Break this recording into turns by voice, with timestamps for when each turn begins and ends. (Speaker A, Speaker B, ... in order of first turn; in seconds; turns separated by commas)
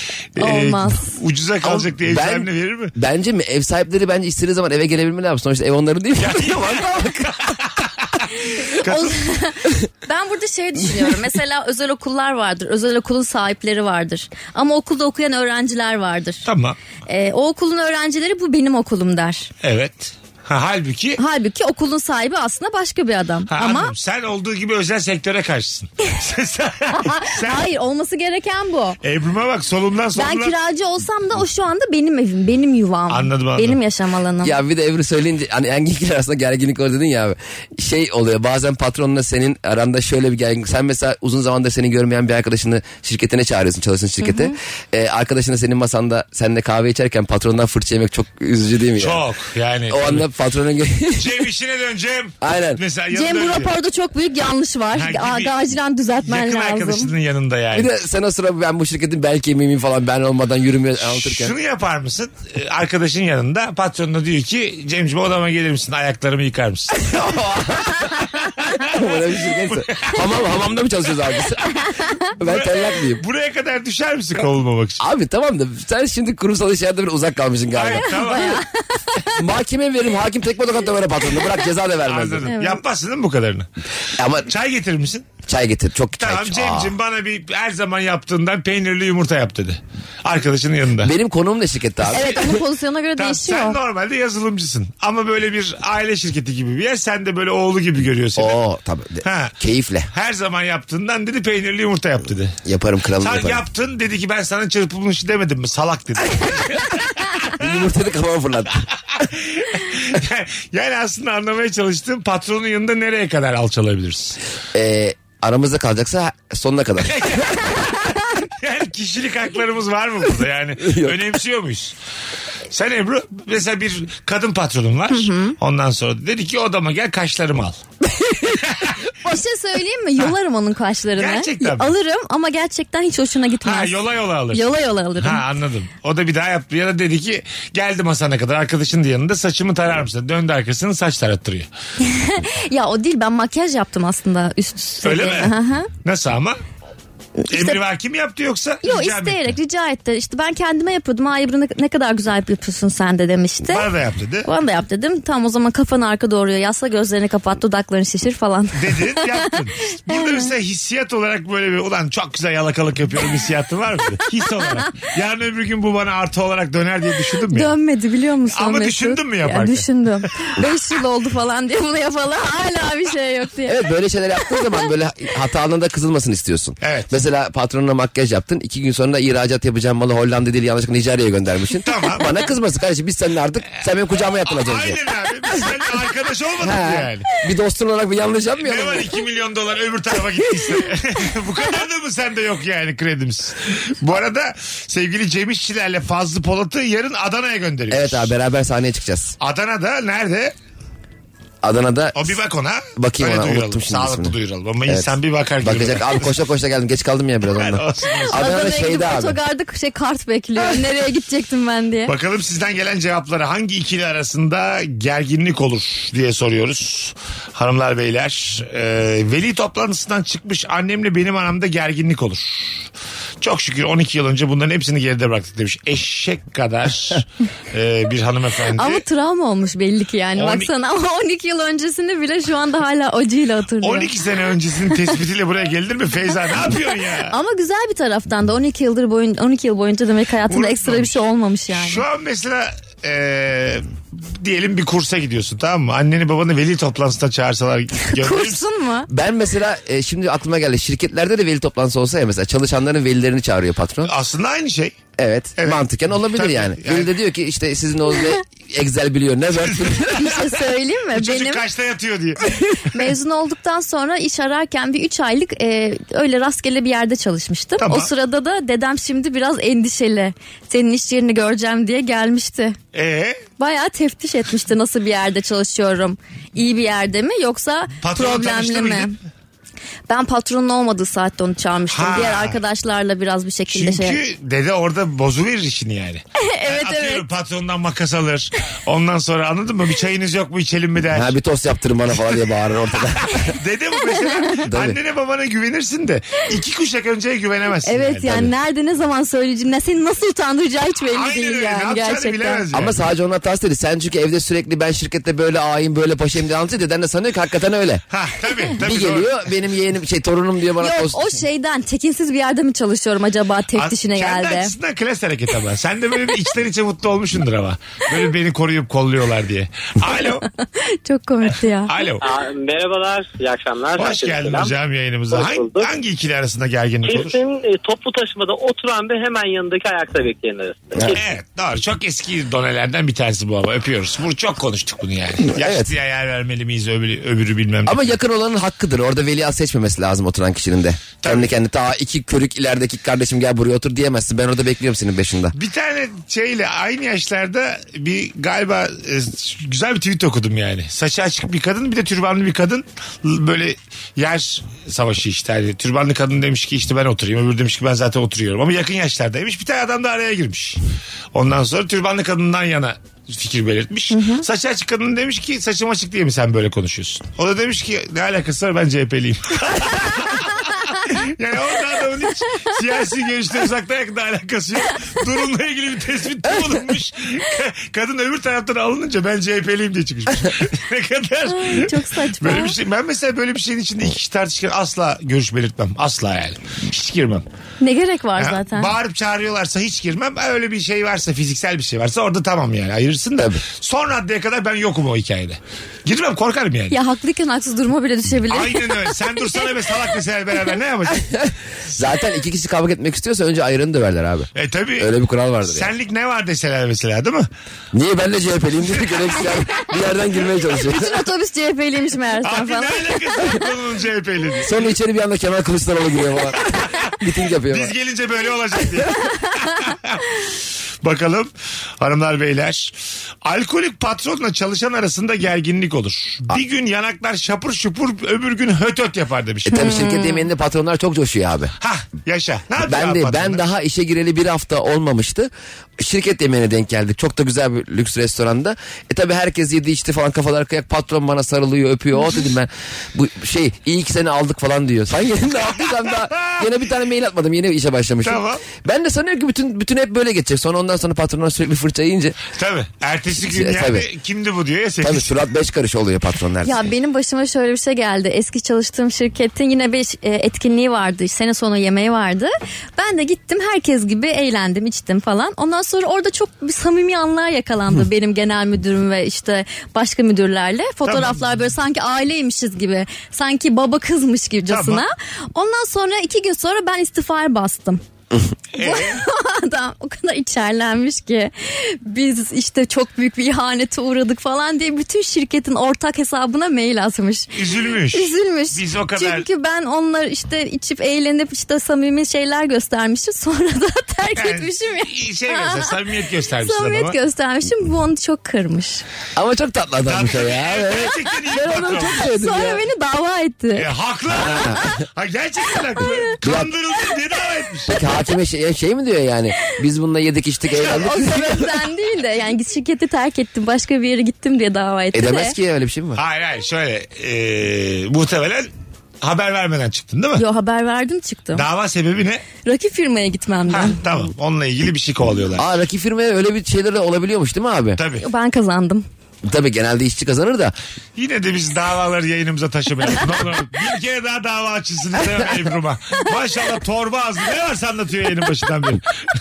Speaker A: 0.3-2.9, Speaker B: 0.4-1.2, Speaker C: 1.6-7.5, Speaker A: 6.2-9.2, Speaker B: 8.4-16.4, Speaker A: 16.5-16.8, Speaker B: 17.1-19.5, Speaker A: 19.6-21.2, Speaker B: 21.2-23.9, Speaker A: 23.5-27.7, Speaker B: 26.9-29.0, Speaker A: 29.0-30.5, Speaker B: 30.2-34.6, Speaker A: 33.1-33.8, Speaker C: 34.4-49.2, Speaker B: 44.2-44.6, Speaker A: 49.0-50.3, Speaker C: 49.9-51.4, Speaker A: 51.2-53.7, Speaker C: 52.4-52.8, Speaker B: 53.1-57.1, Speaker A: 55.0-55.6, Speaker A: 56.2-57.9, Speaker C: 57.7-61.5, Speaker A: 61.0-67.1, Speaker C: 66.9-71.8, Speaker A: 68.6-68.9, Speaker A: 69.5-70.2, Speaker B: 72.0-72.2, Speaker C: 72.3-73.2, Speaker A: 72.4-75.0, Speaker C: 75.0-78.2, Speaker A: 77.7-78.6, Speaker B: 78.0-79.3, Speaker C: 79.3-82.5, Speaker A: 82.0-83.7, Speaker B: 82.5-82.8, Speaker C: 84.2-84.5, Speaker A: 84.4-85.3, Speaker C: 85.5-86.9, Speaker A: 86.2-91.1, Speaker C: 91.0-92.5, Speaker B: 92.1-93.8, Speaker A: 93.2-98.6, Speaker C: 98.4-100.1, Speaker A: 99.2-99.5, Speaker A: 100.1-102.6, Speaker C: 102.7-103.6, Speaker A: 103.2-107.8, Speaker C: 107.6-108.8, Speaker A: 109.1-114.4, Speaker C: 114.7-117.7, Speaker A: 117.0-121.9, Speaker C: 120.8-121.2, Speaker A: 122.7-127.8, Speaker B: 125.1-125.5, Speaker A: 128.5-129.0, Speaker B: 129.2-133.9, Speaker A: 131.2-131.9, Speaker A: 133.6-141.7, Speaker B: 134.5-135.4, Speaker B: 142.0-145.9, Speaker A: 145.0-146.6, Speaker B: 147.4-147.8, Speaker A: 147.5-149.5, Speaker B: 148.8-153.8, Speaker A: 153.7-154.5, Speaker B: 154.4-160.5, Speaker A: 158.7-167.7, Speaker B: 164.6-165.0, Speaker B: 167.5-173.8, Speaker A: 168.5-169.9, Speaker C: 173.7-185.0, Speaker A: 176.8-177.2, Speaker A: 181.8-182.3, Speaker A: 184.4-187.3, Speaker C: 186.6-189.1, Speaker A: 188.6-198.3, Speaker C: 197.9-199.3, Speaker A: 199.4-200.5, Speaker C: 201.6-202.3, Speaker A: 202.2-206.3, Speaker C: 203.0-204.3, Speaker C: 204.9-209.4, Speaker A: 207.5-208.6, Speaker B: 208.3-212.1, Speaker A: 212.1-222.9, Speaker A: 223.4-229.0, Speaker B: 228.8-234.1, Speaker A: 230.3-230.7, Speaker A: 233.8-237.3, Speaker B: 237.3-242.0, Speaker A: 240.5-241.2, Speaker A: 241.7-248.6, Speaker B: 248.1-249.1, Speaker C: 249.1-254.1, Speaker A: 254.1-255.0, Speaker C: 255.2-260.2, Speaker A: 255.6-257.1, Speaker A: 259.7-260.5, Speaker B: 260.0-261.6, Speaker A: 261.1-262.6, Speaker B: 262.7-272.8, Speaker A: 267.8-268.1, Speaker A: 272.9-273.4, Speaker B: 273.6-279.1, Speaker A: 278.0-279.1, Speaker B: 280.1-284.2, Speaker A: 281.9-282.6, Speaker A: 283.7-291.3, Speaker B: 286.4-287.2, Speaker C: 291.1-293.5, Speaker A: 293.5-298.5, Speaker B: 294.1-294.6, Speaker C: 294.6-295.0, Speaker B: 297.9-302.6, Speaker A: 301.1-303.0, Speaker C: 302.7-308.0, Speaker A: 308.1-309.4, Speaker C: 308.8-311.4, Speaker B: 310.8-314.7, Speaker A: 313.8-320.5, Speaker B: 320.8-322.1, Speaker A: 321.9-322.2, Speaker D: 322.2-324.7, Speaker A: 324.0-327.4, Speaker D: 325.3-325.9, Speaker D: 327.1-331.2, Speaker A: 331.1-338.1, Speaker C: 335.4-335.9, Speaker C: 337.9-345.5, Speaker A: 341.2-341.5, Speaker A: 345.5-360.8, Speaker A: 361.3-387.4, Speaker B: 364.1-364.4, Speaker B: 381.5-382.8, Speaker B: 387.8-388.9, Speaker A: 388.4-397.0, Speaker B: 396.9-399.1, Speaker A: 398.5-401.3, Speaker C: 401.3-405.9, Speaker A: 404.6-405.1, Speaker A: 405.6-407.5, Speaker C: 407.9-411.2, Speaker B: 410.8-413.5, Speaker A: 412.4-414.9, Speaker C: 414.6-417.9, Speaker A: 416.6-417.1, Speaker A: 417.7-420.2, Speaker A: 421.0-430.0, Speaker C: 429.6-431.7, Speaker B: 429.7-430.5, Speaker A: 431.8-433.6, Speaker C: 432.9-452.4, Speaker A: 446.3-446.7, Speaker A: 448.2-448.6, Speaker A: 452.5-455.3, Speaker C: 453.4-454.1, Speaker C: 455.0-456.9, Speaker B: 456.6-478.0, Speaker A: 471.1-471.6, Speaker A: 474.7-475.0, Speaker A: 478.8-479.2, Speaker B: 478.8-487.6, Speaker A: 487.5-489.5, Speaker B: 488.1-496.0, Speaker A: 494.4-497.1, Speaker B: 496.6-499.0, Speaker C: 499.4-502.8, Speaker A: 500.1-502.2, Speaker B: 501.6-503.9, Speaker A: 503.8-508.0, Speaker C: 504.3-504.9, Speaker C: 506.4-506.7, Speaker C: 507.9-511.7, Speaker B: 510.7-515.6, Speaker C: 515.1-516.2, Speaker A: 516.2-518.7, Speaker A: 519.2-520.4, Speaker B: 520.4-521.6, Speaker A: 521.5-522.4, Speaker B: 522.6-524.0, Speaker A: 523.7-525.7, Speaker C: 525.6-528.0, Speaker A: 528.0-528.2, Speaker B: 528.2-529.0, Speaker C: 529.5-530.8, Speaker A: 531.1-539.0